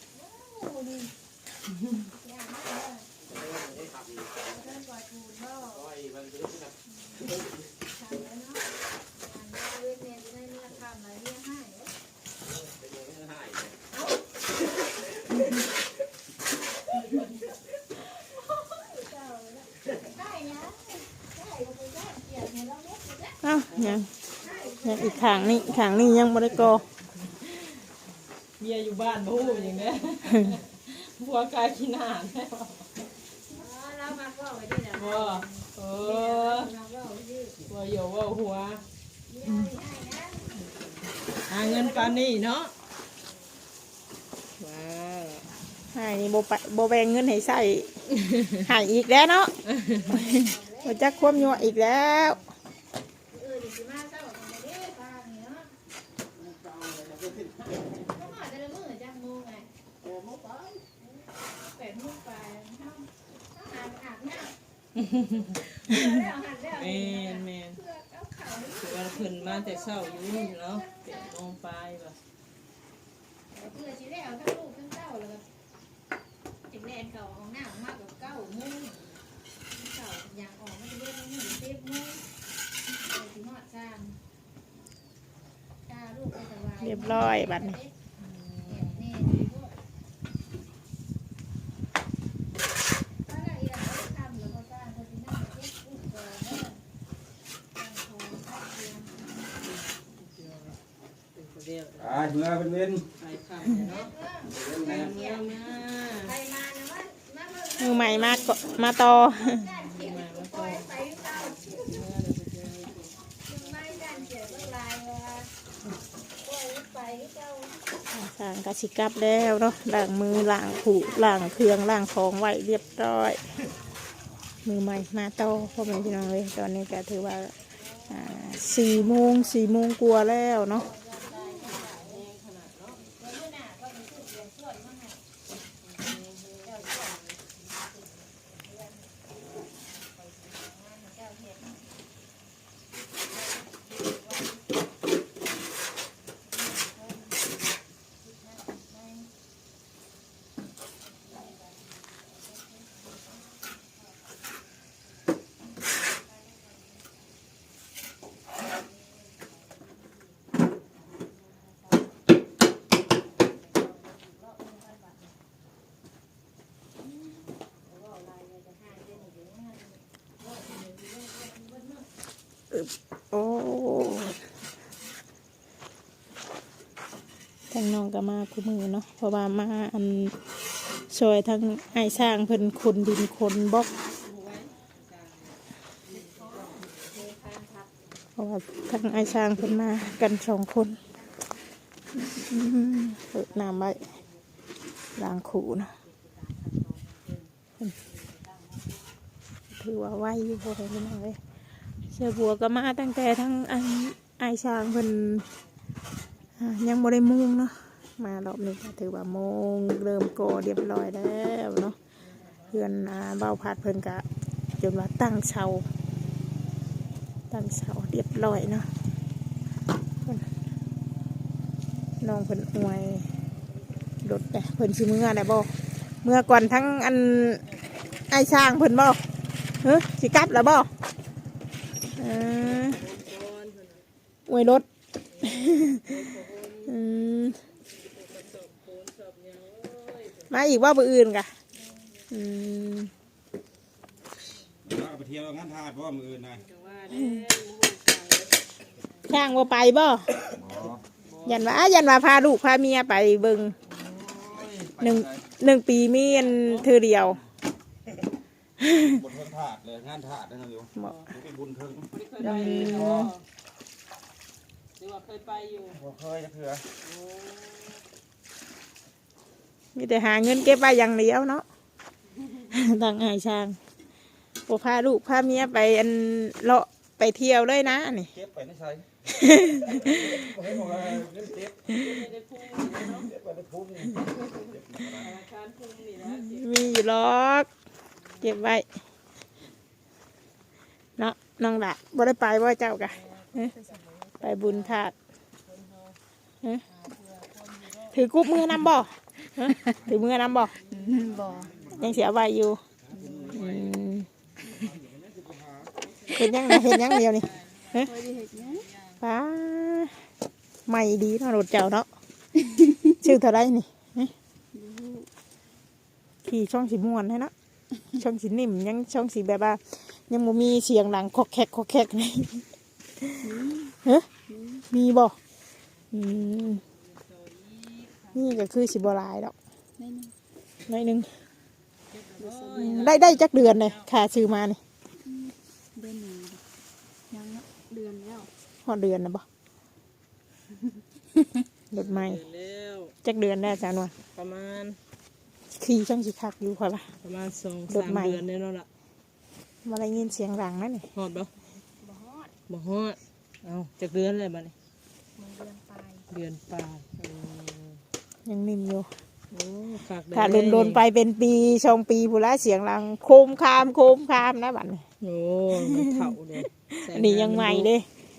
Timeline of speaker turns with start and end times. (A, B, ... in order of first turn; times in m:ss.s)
0:00.1-0:01.1 A
0:02.2-0:03.1 A
0:04.5-0:05.8 A
0:08.0-0:08.6 A
0:09.2-0:11.9 A
0:18.6-0:23.3 A
0:23.4-0:24.1 B
0:24.4-0:25.7 A
0:24.7-0:26.8 B
0:27.3-0:27.8 C
0:28.6-0:32.9 C
0:33.5-0:35.4 A
0:34.9-0:36.7 C
0:36.1-0:37.6 A
0:37.6-0:38.8 C
0:39.3-0:40.5 A
0:41.4-0:42.7 C
0:44.6-0:45.5 C
0:45.9-0:49.5 B
0:49.8-0:50.1 C
0:50.1-0:51.2 A
0:50.1-0:52.4 B
0:53.3-0:55.7 A
0:58.1-0:59.7 A
1:01.7-1:04.5 A
1:05.0-1:07.8 C
1:05.9-1:06.7 A
1:07.9-1:08.7 A
1:08.7-1:12.2 C
1:13.6-1:15.4 A
1:16.7-1:19.0 A
1:19.9-1:22.2 A
1:23.2-1:24.1 A
1:25.9-1:26.8 A
1:26.8-1:27.8 B
1:27.4-1:27.9 A
1:28.2-1:29.4 C
1:28.9-1:29.7 A
1:33.3-1:36.8 A
1:37.8-1:39.1 A
1:39.9-1:40.8 C
1:41.3-1:42.2 C
1:42.0-1:43.0 D
1:43.2-1:46.4 C
1:44.1-1:44.7 A
1:46.3-1:48.7 A
1:47.8-1:49.8 B
1:49.3-1:51.5 A
1:49.8-1:54.8 C
1:53.5-1:55.5 A
1:56.4-1:57.8 A
1:58.1-2:03.4 B
2:04.6-2:07.5 B
2:08.1-2:10.9 B
2:11.0-2:12.0 A
2:11.2-2:13.1 C
2:13.2-2:15.2 A
2:15.8-2:17.5 C
2:48.1-2:49.8 A
2:50.9-2:51.5 A
2:52.7-2:54.4 B
2:57.7-3:00.4 B
3:01.1-3:03.9 B
3:04.2-3:05.6 C
3:06.1-3:06.8 C
3:07.4-3:07.6 A
3:08.4-3:11.0 B
3:12.2-3:14.1 B
3:15.2-3:15.9 B
3:19.7-3:21.4 B
3:22.1-3:25.4 B
3:26.6-3:32.0 B
3:32.7-3:34.2 B
3:34.8-3:35.8 B
3:37.5-3:38.9 B
3:42.2-3:43.3 B
3:44.2-3:45.7 B
3:46.2-3:47.6 B
3:48.3-3:49.2 B
3:49.8-3:50.9 B
3:52.1-3:53.0 B
3:52.8-3:54.0 C
3:54.5-3:54.8 B
3:55.4-3:56.9 C
3:55.4-3:56.0 B
3:56.8-3:57.6 B
3:58.0-4:00.5 C
4:00.5-4:01.5 B
4:02.3-4:03.1 B
4:04.8-4:06.6 D
4:06.7-4:08.6 C
4:09.2-4:10.5 B
4:10.6-4:11.0 D
4:11.4-4:13.8 B
4:14.0-4:14.7 C
4:14.6-4:15.2 D
4:15.0-4:17.4 B
4:16.4-4:16.9 C
4:18.8-4:19.1 B
4:19.1-4:22.1 D
4:21.0-4:21.3 C
4:22.1-4:23.4 C
4:22.4-4:23.3 B
4:22.6-4:23.2 D
4:25.0-4:26.0 C
4:25.9-4:26.8 D
4:27.0-4:28.0 C
4:29.9-4:31.6 B
4:32.6-4:33.8 B
4:34.7-4:38.3 B
4:38.3-4:39.0 D
4:39.2-4:40.3 B
4:40.0-4:42.2 D
4:41.9-4:43.3 C
4:43.2-4:45.3 D
4:45.0-4:46.8 C
4:46.3-4:47.7 B
4:48.4-4:48.9 B
4:51.2-4:53.7 B
4:53.5-4:55.0 C
4:54.4-4:55.1 B
4:55.6-4:56.2 C
4:56.9-4:58.2 C
4:58.1-5:00.7 B
5:00.8-5:02.0 E
5:01.0-5:01.4 C
5:01.9-5:02.8 B
5:03.1-5:03.5 D
5:03.2-5:03.9 C
5:03.5-5:04.3 B
5:04.9-5:05.9 D
5:06.2-5:08.1 B
5:07.9-5:08.9 E
5:08.7-5:09.1 C
5:09.2-5:10.2 B
5:10.8-5:12.1 B
5:13.0-5:14.3 B
5:14.7-5:15.3 E
5:16.4-5:17.5 B
5:18.1-5:22.6 B
5:23.4-5:24.8 E
5:24.9-5:25.4 B
5:26.1-5:26.8 B
5:27.4-5:28.3 C
5:28.3-5:29.5 B
5:30.0-5:30.3 E
5:30.9-5:31.3 B
5:32.1-5:34.1 C
5:32.4-5:33.1 E
5:32.8-5:34.8 B
5:35.2-5:36.6 E
5:37.3-5:38.5 E
5:38.8-5:39.4 B
5:41.9-5:42.4 B
5:42.0-5:43.1 C
5:43.2-5:44.1 B
5:44.3-5:45.0 C
5:45.7-5:47.1 B
5:47.2-5:48.9 C
5:47.9-5:48.4 B
5:49.8-5:51.1 B
5:51.1-5:51.5 C
5:52.0-5:52.5 E
5:52.7-5:54.7 C
5:55.3-5:56.2 E
5:56.3-5:58.0 C
5:58.4-5:59.2 B
5:59.5-6:01.0 C
6:00.3-6:05.0 B
6:05.2-6:07.9 C
6:05.8-6:08.0 B